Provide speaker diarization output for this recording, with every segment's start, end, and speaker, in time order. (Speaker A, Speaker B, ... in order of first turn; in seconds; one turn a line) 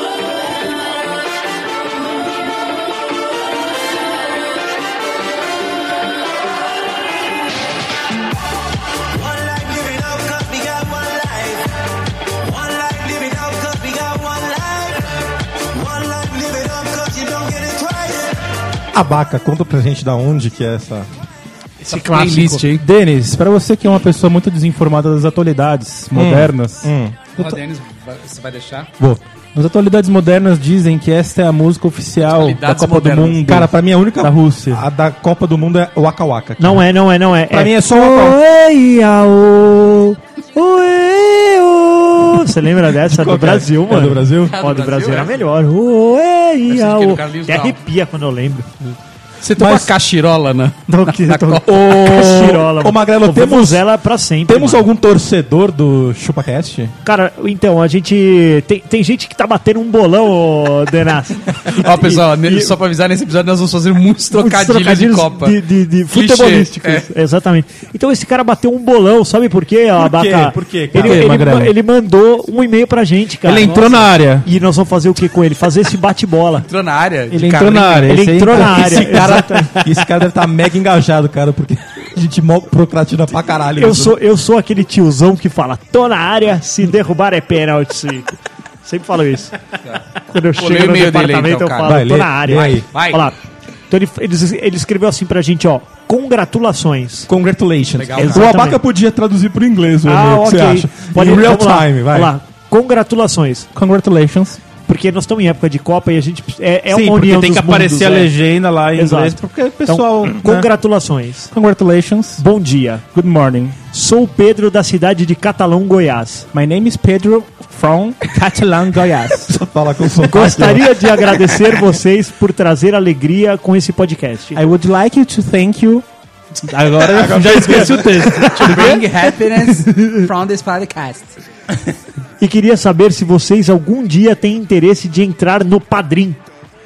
Speaker A: 9.1-11.7
Speaker A: 12.3-15.1
Speaker A: 15.7-18.3
Speaker B: 18.9-21.1
Speaker C: 21.8-22.7
Speaker D: 21.9-22.8
Speaker E: 22.8-27.6
Speaker B: 26.1-27.2
Speaker D: 27.4-28.9
Speaker E: 29.6-34.8
Speaker D: 32.3-33.5
Speaker B: 33.5-36.8
Speaker C: 36.6-48.7
Speaker B: 37.5-38.4
Speaker B: 43.0-44.5
Speaker D: 44.5-45.4
Speaker D: 46.7-47.8
Speaker D: 48.8-51.8
Speaker B: 49.5-49.9
Speaker C: 50.9-54.9
Speaker B: 51.6-53.9
Speaker B: 54.5-56.9
Speaker C: 57.0-62.7
Speaker D: 61.7-67.0
Speaker C: 64.3-76.7
Speaker B: 70.0-71.3
Speaker E: 71.0-71.8
Speaker E: 73.5-74.5
Speaker D: 73.6-74.0
Speaker D: 76.7-78.2
Speaker E: 77.3-79.1
Speaker C: 78.1-79.9
Speaker B: 78.5-84.2
Speaker C: 83.8-88.3
Speaker C: 88.8-89.5
Speaker C: 90.2-93.4
Speaker D: 90.6-92.0
Speaker B: 91.8-92.9
Speaker D: 92.5-93.3
Speaker C: 93.9-97.3
Speaker B: 97.3-102.3
Speaker D: 98.0-98.5
Speaker C: 98.2-98.8
Speaker C: 100.1-103.7
Speaker E: 103.8-104.6
Speaker C: 104.9-108.3
Speaker E: 106.9-110.7
Speaker C: 108.9-111.5
Speaker E: 111.5-112.4
Speaker C: 112.4-113.0
Speaker E: 113.1-113.8
Speaker C: 113.9-116.5
Speaker E: 116.5-119.5
Speaker B: 119.5-121.6
Speaker C: 120.2-124.7
Speaker E: 124.5-126.0
Speaker E: 126.6-129.0
Speaker B: 127.0-128.2
Speaker D: 127.1-131.4
Speaker C: 128.2-128.9
Speaker C: 129.9-130.2
Speaker C: 132.4-136.4